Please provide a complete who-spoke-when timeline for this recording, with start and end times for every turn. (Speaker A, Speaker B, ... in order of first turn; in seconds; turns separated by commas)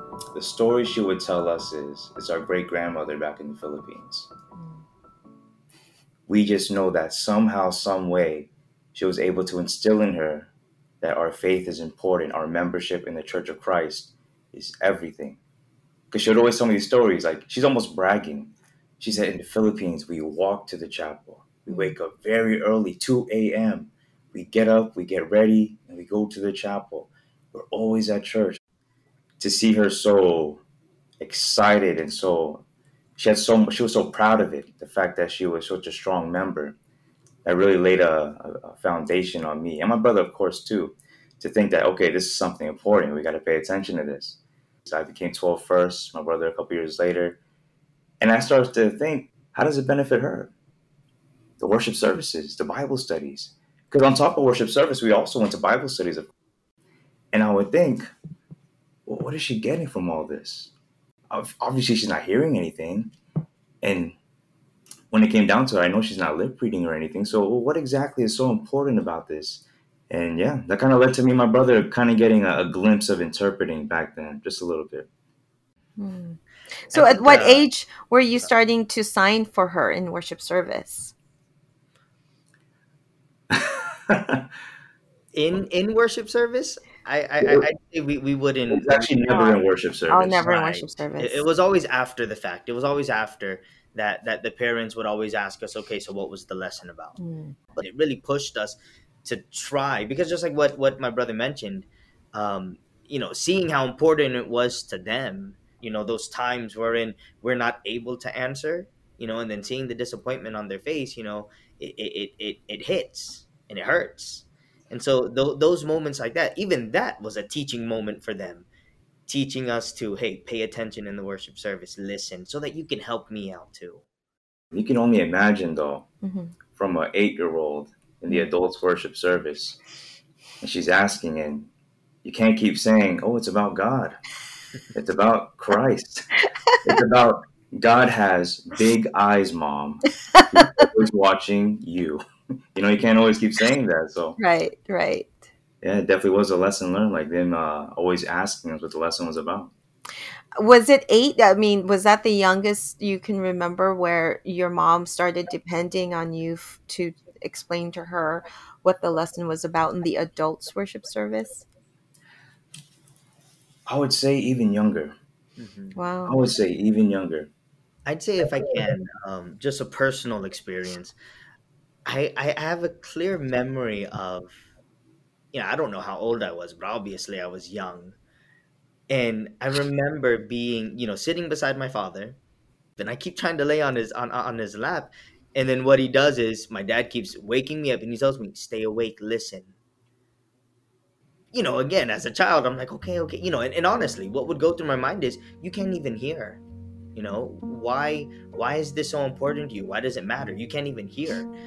Speaker A: 0.3-4.3, Speaker B: 4.5-4.8, Speaker A: 6.3-10.5, Speaker A: 11.0-15.4, Speaker A: 16.1-28.6, Speaker B: 21.7-21.9, Speaker A: 29.4-30.6, Speaker A: 31.2-32.6, Speaker A: 33.2-36.8, Speaker A: 37.4-47.4, Speaker A: 48.2-50.5, Speaker A: 51.6-56.3, Speaker A: 57.3-58.1, Speaker A: 59.0-60.7, Speaker A: 61.3-63.1, Speaker A: 63.8-64.1, Speaker A: 65.1-75.1, Speaker B: 76.0-76.4, Speaker C: 76.9-77.7, Speaker B: 76.9-81.1, Speaker A: 83.5-84.5, Speaker C: 85.3-89.3, Speaker A: 88.7-90.5, Speaker B: 89.3-91.4, Speaker C: 90.4-97.2, Speaker B: 97.2-97.5, Speaker C: 97.7-118.7, Speaker C: 119.3-124.0, Speaker A: 124.7-126.1, Speaker B: 126.2-126.5, Speaker A: 126.7-129.8, Speaker A: 130.6-131.7, Speaker A: 132.2-134.2, Speaker A: 134.9-136.3, Speaker A: 136.8-142.2, Speaker A: 142.7-144.4, Speaker B: 144.4-145.4, Speaker A: 145.8-149.7, Speaker B: 150.6-161.7, Speaker A: 163.9-165.1, Speaker C: 165.6-165.9, Speaker B: 165.9-166.4, Speaker A: 166.2-167.5, Speaker C: 168.1-171.1, Speaker C: 172.1-174.5, Speaker C: 175.5-178.2, Speaker C: 179.1-182.4, Speaker C: 183.0-189.7, Speaker C: 191.5-196.6, Speaker C: 197.2-201.5